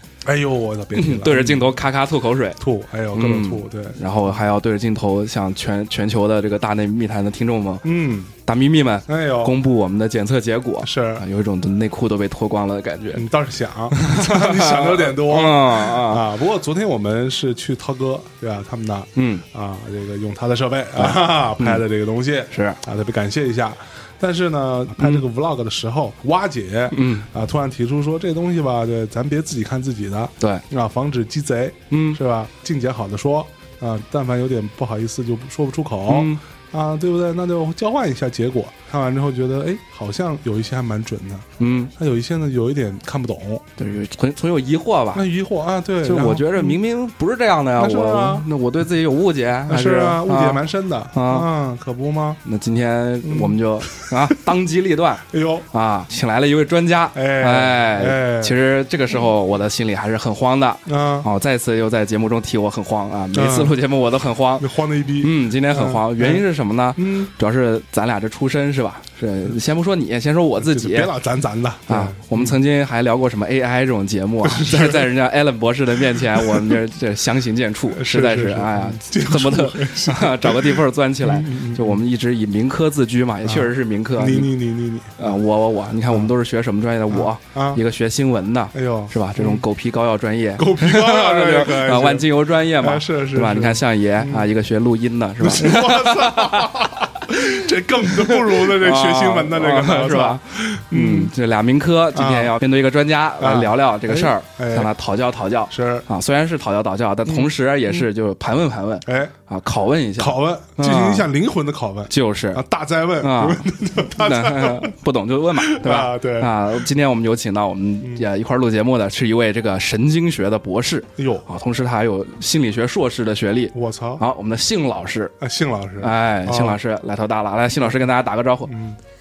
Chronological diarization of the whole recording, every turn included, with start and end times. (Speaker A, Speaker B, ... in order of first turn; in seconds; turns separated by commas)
Speaker A: 0.2-1.8, Speaker B: 0.9-2.6, Speaker A: 2.6-4.0, Speaker B: 3.1-7.8, Speaker A: 7.8-8.3, Speaker B: 8.4-13.3, Speaker A: 9.1-9.6, Speaker A: 10.8-11.2, Speaker A: 13.1-43.7, Speaker B: 13.9-16.2, Speaker B: 19.1-19.4, Speaker B: 21.0-21.8, Speaker B: 22.5-22.8, Speaker B: 26.9-27.3, Speaker B: 31.9-32.2, Speaker B: 36.1-36.4, Speaker B: 41.6-41.9, Speaker B: 43.8-45.2, Speaker A: 45.1-46.8, Speaker B: 46.0-51.5, Speaker A: 47.8-48.5, Speaker A: 49.7-52.4, Speaker B: 52.4-64.7, Speaker A: 53.2-54.4, Speaker A: 55.3-55.7, Speaker A: 57.1-58.6, Speaker A: 60.9-61.3, Speaker A: 63.3-63.8, Speaker A: 64.6-66.4, Speaker B: 65.2-71.1, Speaker A: 67.0-67.3, Speaker A: 70.6-72.6, Speaker B: 71.9-84.5, Speaker A: 74.4-75.1, Speaker A: 76.0-76.8, Speaker A: 77.9-82.0, Speaker A: 83.4-85.3, Speaker B: 85.2-96.7, Speaker A: 87.1-87.8, Speaker A: 88.7-89.6, Speaker A: 90.6-94.5, Speaker A: 95.4-101.3, Speaker B: 98.2-111.3, Speaker A: 102.1-102.6, Speaker A: 103.4-104.9, Speaker A: 105.7-106.1, Speaker A: 107.2-108.0, Speaker A: 109.0-109.3, Speaker A: 110.2-114.9, Speaker B: 112.1-112.6, Speaker B: 113.2-125.3, Speaker A: 115.6-116.9, Speaker A: 118.0-118.3, Speaker A: 121.2-121.5, Speaker A: 123.7-124.2, Speaker A: 125.4-126.8, Speaker B: 126.0-128.7, Speaker A: 128.6-129.0